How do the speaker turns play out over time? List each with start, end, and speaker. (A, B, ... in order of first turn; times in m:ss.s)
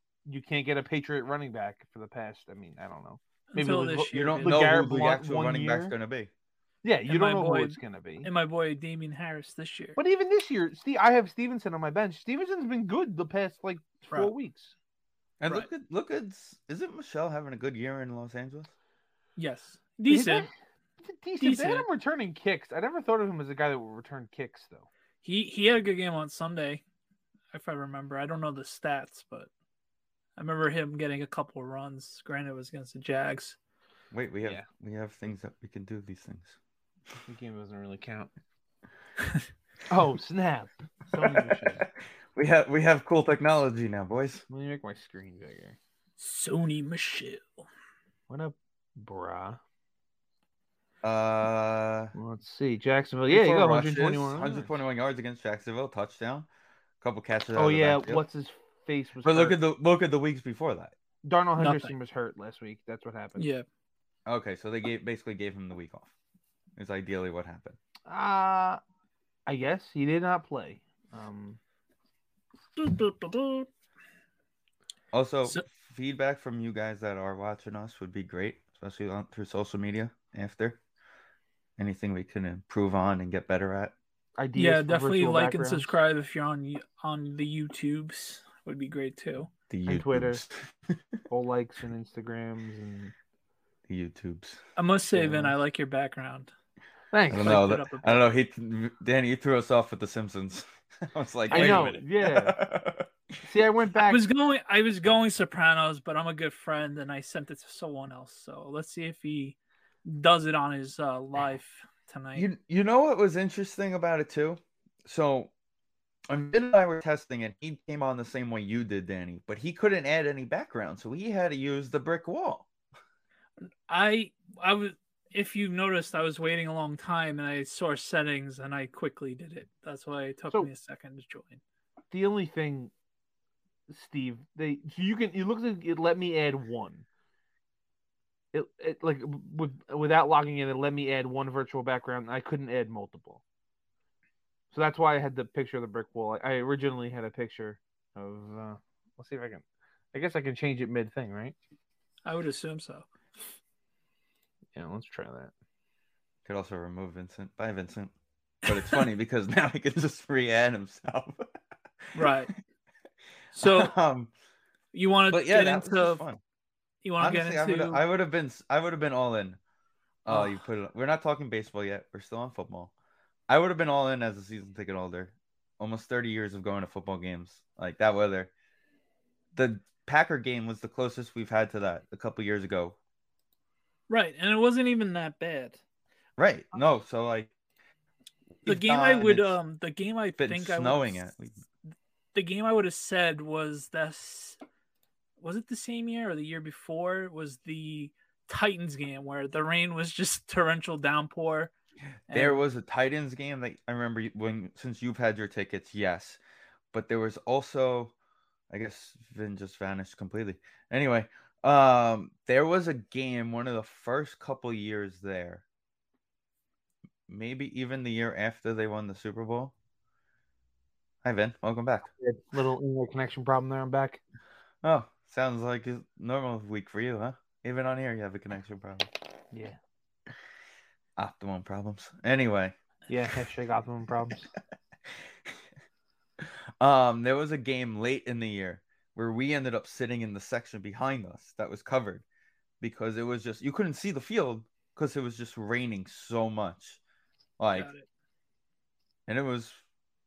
0:00.2-0:05.9 A
0:03.5-0:04.7 B
0:04.1-0:06.3 C
0:06.8-0:08.3 A
0:07.1-0:10.0 B
0:10.0-0:14.7 A
0:15.4-0:18.7 C
0:19.4-0:20.5 B
0:20.1-0:24.9 A
0:21.4-0:21.9 B
0:25.2-0:26.8 B
0:27.5-0:29.5 B
0:30.4-0:33.6 B
0:34.1-0:36.6 C
0:37.2-0:38.3 A
0:39.9-0:41.9 A
0:41.2-0:44.4 C
0:44.5-0:45.8 A
0:46.2-0:47.5 B
0:48.3-0:49.6 A
0:51.0-0:52.1 C
0:52.1-0:54.7 A
0:53.3-0:56.5 C
0:57.0-0:58.2 C
0:57.5-0:59.6 A
0:59.2-1:01.0 C
1:01.2-1:03.5 A
1:01.6-1:01.9 B
1:03.4-1:03.6 B
1:04.2-1:06.1 C
1:06.8-1:07.8 C
1:08.0-1:08.8 A
1:09.5-1:11.6 A
1:12.8-1:13.7 B
1:15.1-1:20.8 C
1:21.8-1:23.9 C
1:24.4-1:25.9 A
1:24.6-1:29.5 B
1:29.7-1:31.0 C
1:29.9-1:30.4 A
1:31.3-1:33.1 A
1:33.9-1:34.6 C
1:34.8-1:36.5 B
1:35.1-1:35.5 A
1:37.1-1:37.6 A
1:37.3-1:43.1 C
1:37.3-1:38.2 B
1:41.5-1:41.9 B
1:41.5-1:42.6 A
1:43.4-1:44.2 A
1:44.0-1:52.5 B
1:52.4-1:55.5 C
1:56.3-2:02.7 C
2:03.9-2:11.6 B
2:12.1-2:12.9 A
2:13.9-2:17.0 A
2:18.5-2:23.4 A
2:24.7-2:31.6 A
2:32.2-2:33.1 B
2:34.7-2:35.5 A
2:36.4-2:38.1 C
2:38.6-2:41.5 C
2:42.1-2:42.5 B
2:43.5-2:44.3 C
2:43.5-2:43.9 B
2:44.9-2:46.2 B
2:45.3-2:46.4 C
2:47.0-2:48.0 B
2:47.2-2:49.6 C
2:50.2-2:52.9 C
2:50.3-2:50.6 B
2:53.5-2:58.5 C
2:59.5-3:03.0 C
3:04.1-3:05.8 B
3:06.4-3:07.5 C
3:08.6-3:09.6 C
3:08.6-3:11.3 B
3:10.4-3:11.6 C
3:12.3-3:14.6 B
3:15.4-3:21.7 B
3:22.3-3:22.6 B
3:22.3-3:26.4 C
3:26.9-3:28.1 C
3:28.7-3:35.6 C
3:37.3-3:39.7 C
3:41.2-3:42.1 C
3:42.2-3:44.2 A
3:44.8-3:49.1 C
3:49.5-3:49.8 A
3:51.2-3:52.8 C
3:53.1-3:54.5 A
3:56.4-4:02.2 C
4:02.8-4:07.0 C
4:07.6-4:07.9 C
4:07.7-4:08.1 B
4:09.3-4:09.8 C